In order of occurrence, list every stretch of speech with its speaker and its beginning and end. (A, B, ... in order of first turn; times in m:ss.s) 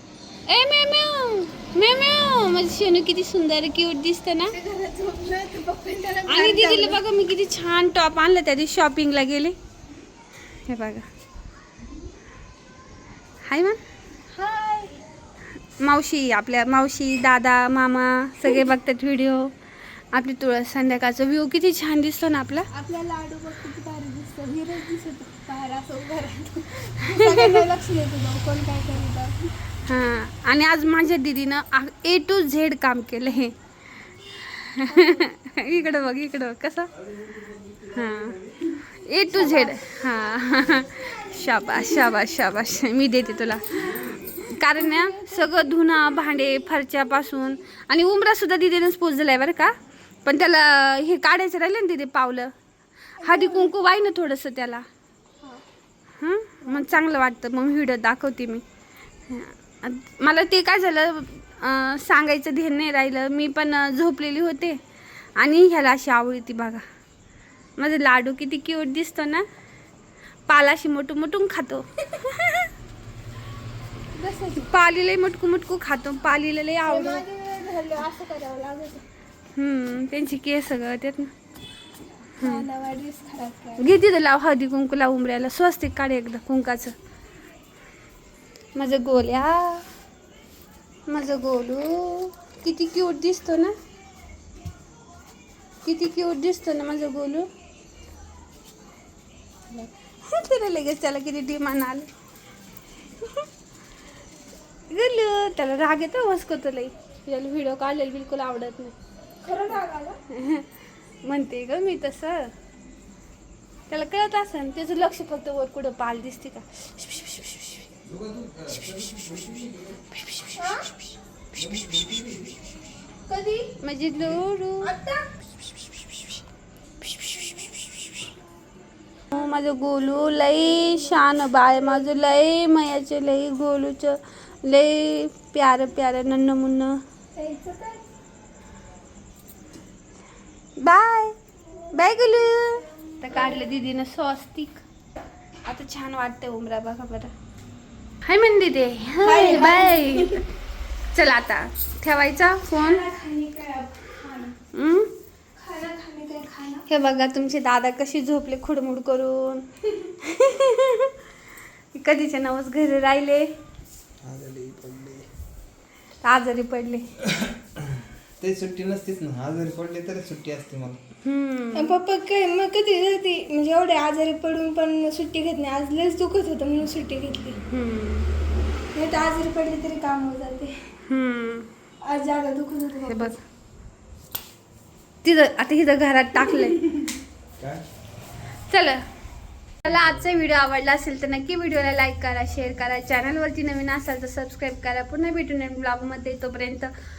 0:00.5-0:04.6 A
0:04.5-0:07.0 B
0:06.3-0:09.6 A
0:10.7-0:11.1 A
0:13.5-0:13.8 A
0:14.3-0:15.0 B
0:15.8-0:19.5 A
0:20.1-0:22.7 A
0:22.7-0:29.5 B
0:27.0-0:27.6 A
0:29.8-0:33.5 A
0:34.4-0:36.9 A
0:34.9-0:35.3 B
0:37.3-0:37.9 C
0:37.9-0:49.7 A
0:39.3-0:39.8 B
0:44.8-0:45.6 B
0:50.2-0:52.5 A
0:53.2-0:53.7 B
0:53.2-0:54.9 A
0:56.2-0:58.6 A
0:59.3-1:04.8 A
1:05.4-1:06.8 A
1:07.8-1:09.4 A
1:10.5-1:12.7 A
1:14.2-1:14.6 B
1:14.3-1:17.2 A
1:16.9-1:19.0 B
1:19.6-1:21.3 A
1:22.4-1:23.9 B
1:22.4-1:22.7 A
1:23.8-1:27.0 A
1:28.8-1:29.9 A
1:31.1-1:33.7 A
1:35.8-1:37.5 A
1:39.7-1:42.1 A
1:43.2-1:43.5 A
1:44.9-1:49.0 A
1:49.4-1:50.2 B
1:50.3-1:50.7 A
1:51.2-1:52.5 A
1:53.9-1:57.9 A
1:58.1-2:00.0 C
1:58.7-1:59.5 A
2:00.2-2:00.6 A
2:00.6-2:00.9 B
2:01.6-2:02.6 C
2:03.3-2:03.7 B
2:03.8-2:05.0 A
2:04.8-2:05.3 B
2:07.0-2:08.2 A
2:09.3-2:17.0 A
2:17.4-2:18.1 B
2:20.8-2:21.4 A
2:21.9-2:24.8 A
2:25.6-2:27.3 A
2:28.2-2:30.4 A
2:29.2-2:30.4 B
2:31.1-2:33.0 A
2:32.7-2:34.6 B
2:34.7-2:35.1 A
2:35.6-2:36.8 B
2:36.9-2:41.1 A
2:41.9-2:43.5 A
2:44.2-2:45.3 C
2:46.2-2:47.1 A
2:48.4-2:51.0 C
2:51.2-2:51.9 A
2:51.8-2:57.6 B
2:57.7-2:58.3 A
2:58.9-3:00.8 B
3:01.1-3:01.7 A
3:02.0-3:03.4 B
3:03.0-3:03.4 A
3:05.2-3:06.9 A
3:07.6-3:07.8 C
3:08.7-3:09.0 A
3:09.8-3:16.9 A